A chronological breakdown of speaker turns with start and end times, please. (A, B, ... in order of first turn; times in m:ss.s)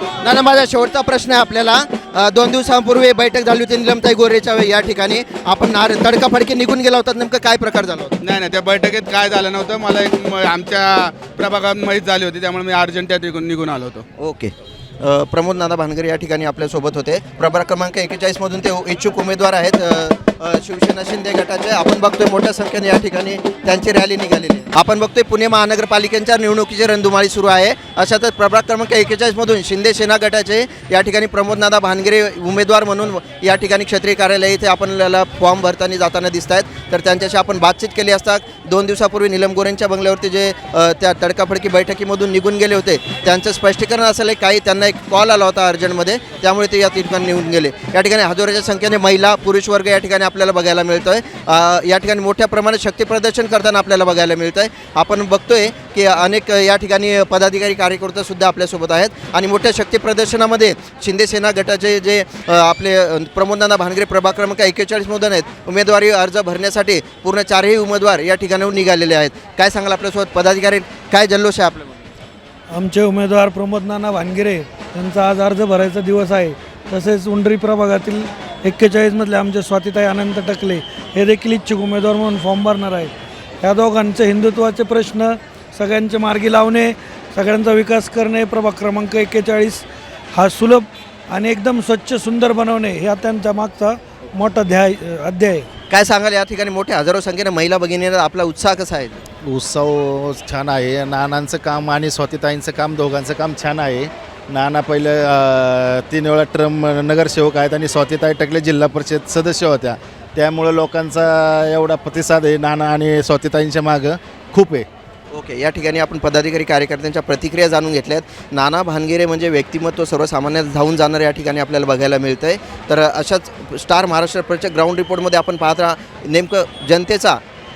0:00.2-0:08.2 A
0:08.2-0:14.0 B
0:14.2-1:12.0 A
1:12.7-1:23.1 C
1:23.6-1:35.7 C
1:35.9-1:39.2 A
1:39.5-1:54.9 D
1:55.3-2:07.4 A